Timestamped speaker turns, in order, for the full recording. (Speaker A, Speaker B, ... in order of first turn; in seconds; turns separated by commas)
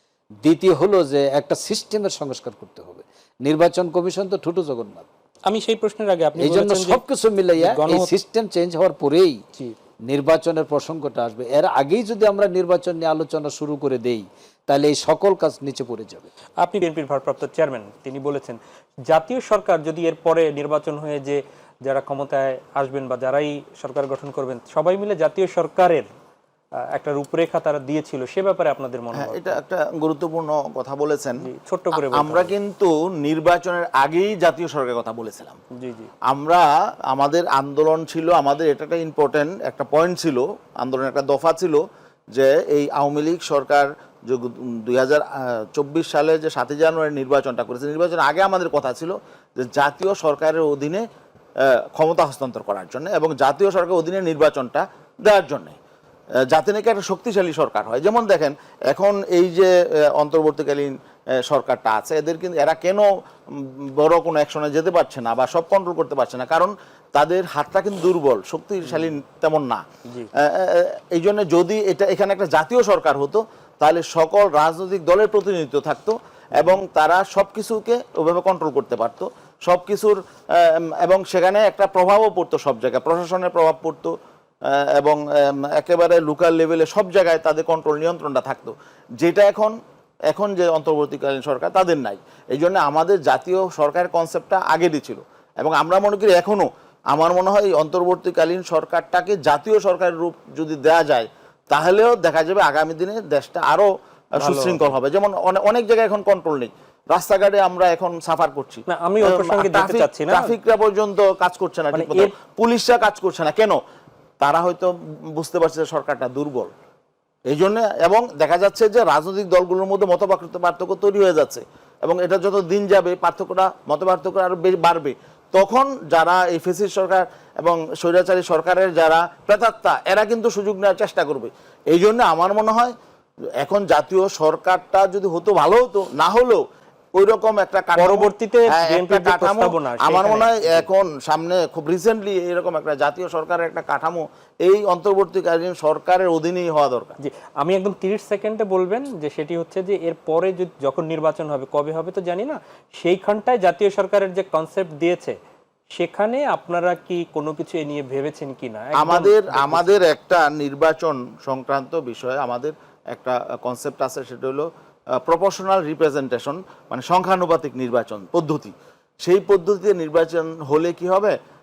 Speaker A: 0.4-5.1, Speaker B: 5.5-7.0, Speaker A: 6.4-9.4, Speaker B: 7.6-8.1, Speaker A: 10.1-16.3, Speaker B: 16.6-26.1, Speaker B: 26.9-29.6, Speaker C: 29.1-31.4, Speaker B: 31.4-32.5, Speaker C: 31.9-35.6, Speaker B: 35.8-36.1, Speaker C: 36.3-41.8, Speaker C: 42.3-51.0, Speaker C: 51.7-55.8, Speaker C: 56.5-69.8, Speaker B: 68.9-69.1, Speaker C: 70.4-84.2, Speaker C: 84.7-89.8, Speaker C: 90.3-103.9, Speaker B: 104.4-104.9, Speaker C: 104.4-113.8, Speaker B: 108.9-110.5, Speaker B: 111.9-112.3, Speaker C: 114.4-116.7, Speaker C: 117.5-132.9, Speaker C: 133.6-136.6, Speaker C: 137.2-147.2, Speaker B: 138.0-140.9, Speaker B: 147.2-155.4, Speaker B: 156.0-160.0, Speaker C: 159.0-164.7, Speaker C: 165.2-168.7, Speaker C: 169.2-171.4